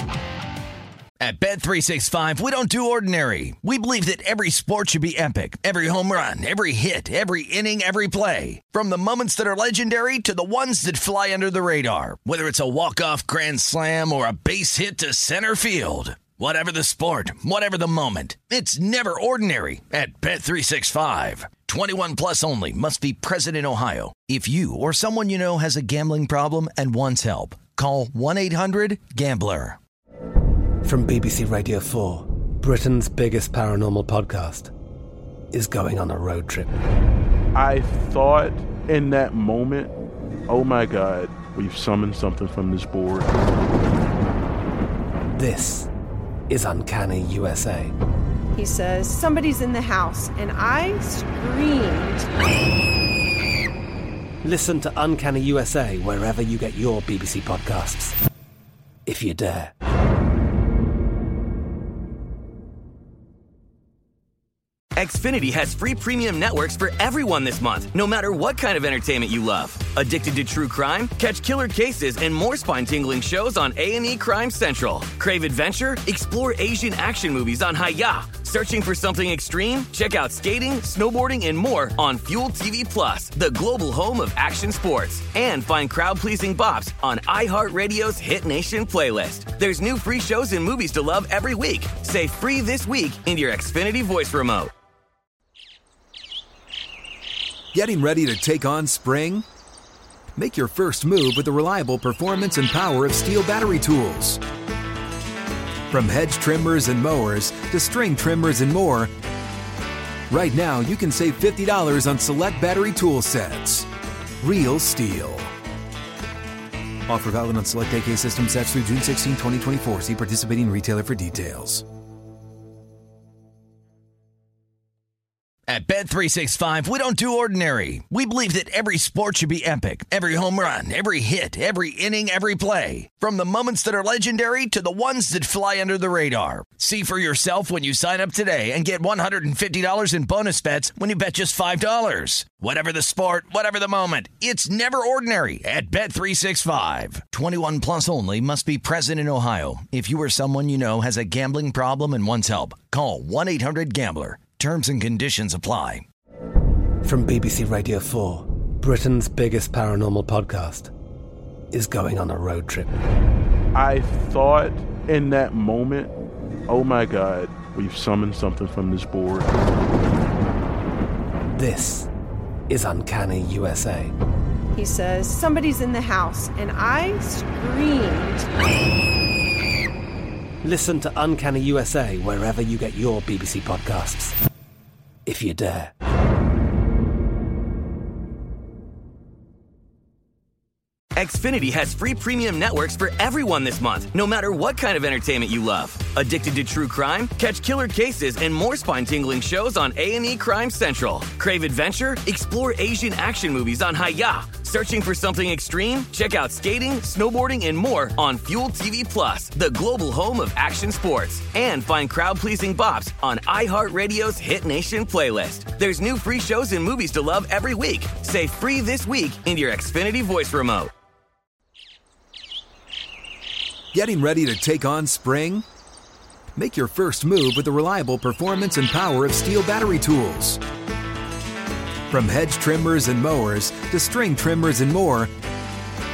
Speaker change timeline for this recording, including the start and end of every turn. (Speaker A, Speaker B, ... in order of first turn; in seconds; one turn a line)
Speaker A: 1.2-29.8
Speaker B: 30.8-34.7
Speaker B: 35.5-36.7
Speaker C: 37.5-39.9
Speaker C: 40.5-43.4
Speaker B: 45.3-45.9
Speaker B: 46.5-47.9
Speaker D: 48.5-52.3
Speaker B: 54.4-58.1
Speaker B: 59.0-59.7
Speaker E: 65.0-94.7
Speaker F: 97.7-99.4
Speaker F: 100.4-104.4
Speaker F: 105.9-109.1
Speaker F: 110.3-113.9
Speaker F: 114.4-115.5
Speaker F: 117.1-121.8
Speaker A: 125.7-156.1
Speaker B: 157.0-160.9
Speaker B: 161.7-162.9
Speaker C: 163.8-166.1
Speaker C: 166.7-169.5
Speaker B: 171.5-172.1
Speaker B: 172.7-174.1
Speaker D: 174.7-178.5
Speaker B: 180.6-184.4
Speaker B: 185.2-185.9
Speaker E: 191.2-220.9
Speaker F: 223.9-225.6
Speaker F: 226.6-230.6
Speaker F: 232.1-235.3